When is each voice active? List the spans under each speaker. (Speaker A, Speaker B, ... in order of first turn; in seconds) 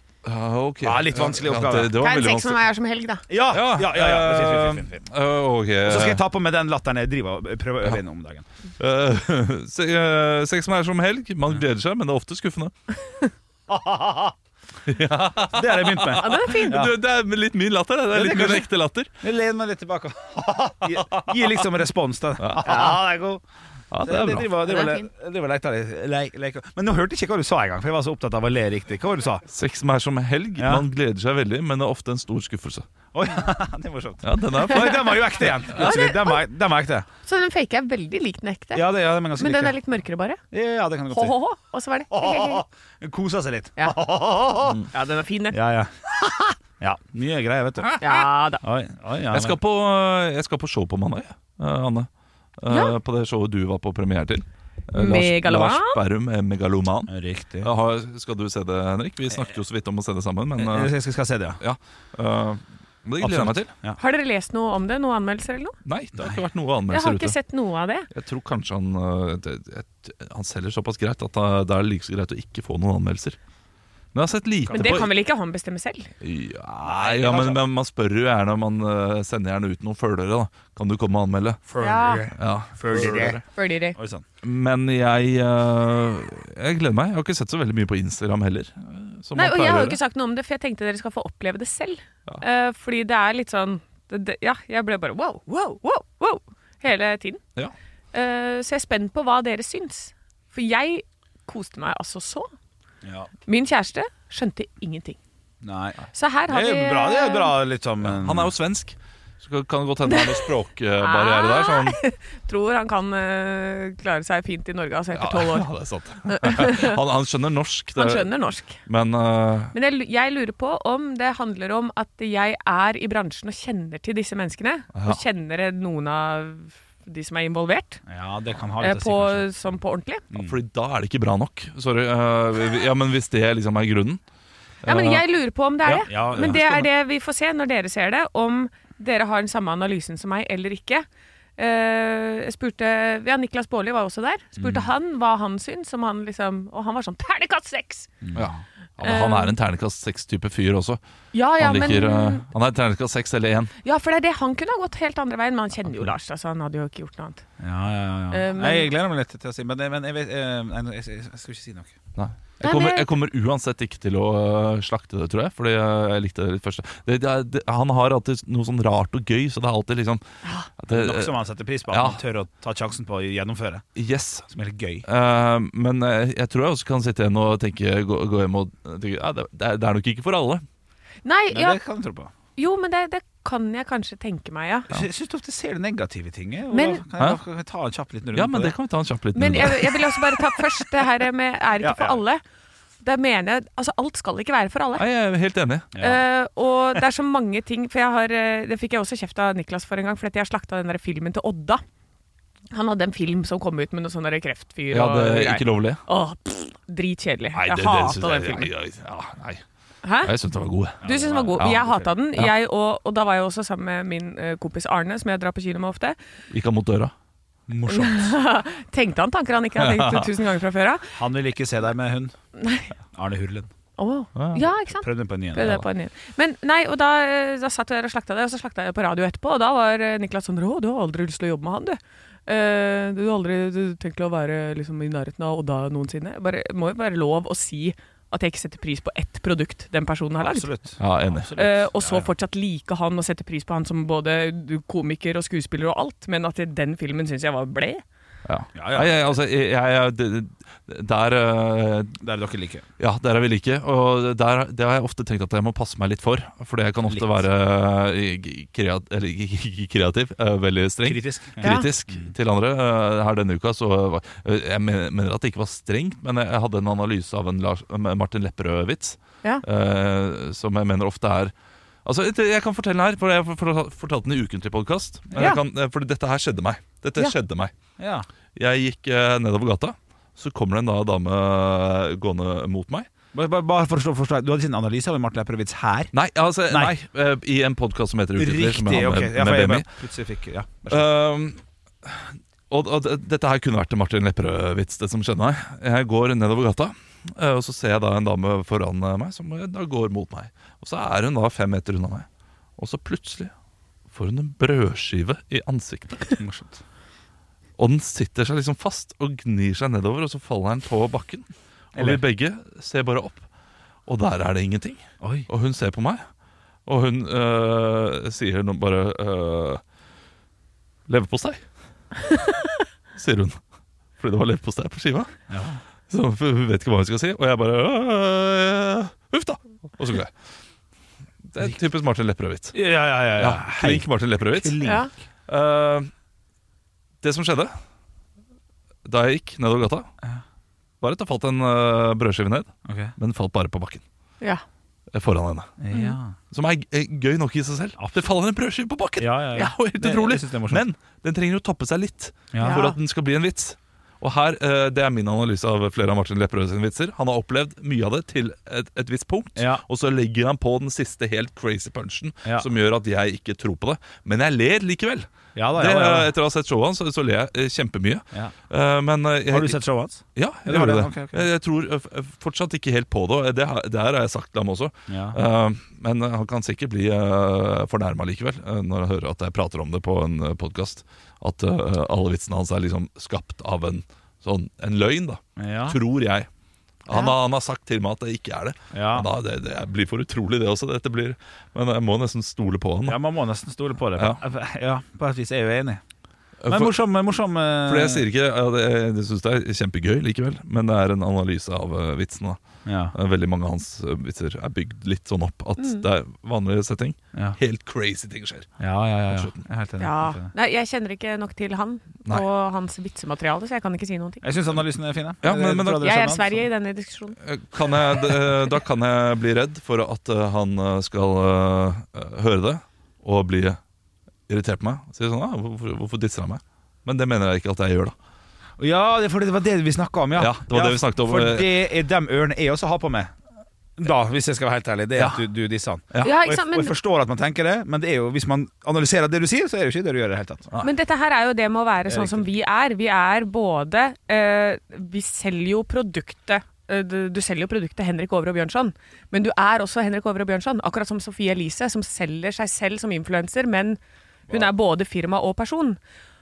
Speaker A: 0.2-2.6, 3.5-6.2, 8.8-12.7, 14.9-19.1, 22.4-22.9, 23.9-24.5, 29.5-32.9, 34.2-35.7, 49.3-60.9, 61.6-63.7, 65.8-67.4, 68.1-73.4, 74.1-75.1, 76.2-81.6, 82.4-83.4, 84.4-90.0, 108.0-112.0, 115.2-118.3, 118.8-119.7, 124.9-125.2, 130.4-134.2, 134.8-135.2, 148.3-151.0, 151.6-153.7, 162.2-170.2, 170.8-171.3, 171.9-172.2, 174.0-174.5, 175.1-180.6, 188.3-190.1, 194.9-195.9, 204.9-206.0, 207.5-209.6, 210.2-211.0, 211.6-212.5, 216.5-217.1, 219.8-220.3, 224.4-224.6, 241.0-241.6, 248.4-252.2, 253.0-271.5, 272.1-277.7, 278.6-283.1, 286.1-289.9, 290.9-302.3, 302.8-303.5, 304.1-306.4, 307.8-313.5, 314.1-316.2, 316.9-319.8, 321.1-321.6, 323.1-323.6, 324.2-325.3, 326.1-330.3, 331.5-332.8, 333.4-334.8, 335.5-336.1, 337.2-337.7, 339.1-340.1, 341.0-344.0, 345.1-345.8, 346.5-369.8, 370.4-386.5, 387.1-393.2, 396.6-397.0, 397.9-402.6, 403.1-408.7, 409.3-409.6, 415.4-416.1, 417.4-423.8, 424.5-428.1, 430.4-431.8, 435.2-435.4
Speaker B: 0.8-2.0, 3.3-5.0, 5.9-8.5, 13.7-14.3, 15.5-17.0, 18.1-18.7, 19.2-23.4, 24.0-29.4, 30.6-30.9, 33.1-37.1, 38.7-39.8, 40.5-41.4, 42.1-44.8, 45.5-48.0, 48.6-49.6, 57.1-57.7, 60.6-61.6, 63.2-64.0, 74.7-75.1, 76.8-77.6, 81.7-83.4, 84.0-84.2, 103.0-103.3, 105.6-108.5, 128.1-129.5, 130.3-130.6, 135.9-136.9, 144.6-144.9, 148.2-148.6, 157.6-162.0, 170.9-173.9, 174.5-175.1, 181.5-182.3, 184.9-188.7, 191.8-192.2, 195.9-196.2, 211.0-212.1, 217.7-218.3, 221.1-222.3, 223.1-223.7, 225.0-225.8, 240.4-242.3, 248.8-249.2, 252.2-252.8, 257.1-257.5, 261.0-262.3, 278.0-278.3, 283.3-286.1, 286.7-286.9, 288.4-291.1, 306.4-306.8, 311.9-312.2, 315.2-315.5, 325.5-325.8, 332.7-335.1, 342.9-343.1, 345.8-346.4, 348.0-348.3, 349.2-350.8, 352.5-352.8, 359.6-359.8, 365.6-366.3, 369.5-371.5, 375.1-375.4, 385.6-386.0, 388.9-389.3, 393.1-396.0, 396.7-398.3, 402.9-403.1, 408.8-410.5, 414.4-416.6, 428.8-433.3, 434.0-440.7, 442.1-442.5
Speaker C: 2.0-3.2, 16.2-16.9, 24.6-25.1, 35.7-36.4, 37.3-40.4, 41.1-42.6, 44.9-45.6, 48.0-48.6, 52.7-53.0, 54.9-56.0, 64.0-65.8, 66.9-68.1, 74.7-76.1, 81.8-82.2, 83.5-84.0, 89.3-97.4, 98.1-102.5, 103.5-105.2, 106.1-107.6, 110.1-110.5, 111.0-115.7, 116.3-117.0, 118.0-118.8, 119.7-128.0, 128.8-130.2, 134.9-141.1, 141.6-148.1, 149.0-149.5, 151.3-152.5, 153.8-157.4, 158.3-158.9, 162.6-163.1, 170.4-170.7, 181.2-181.8, 182.6-184.9, 186.7-187.0, 189.3-192.4, 193.0-195.1, 196.0-201.8, 202.7-208.7, 210.0-210.3, 211.0-216.2, 217.9-221.1, 222.6-222.9, 224.0-240.7, 241.6-248.0, 261.6-261.9, 334.8-335.1, 352.6-353.0, 410.0-414.5, 415.9-417.4, 436.2-436.9, 440.8-456.0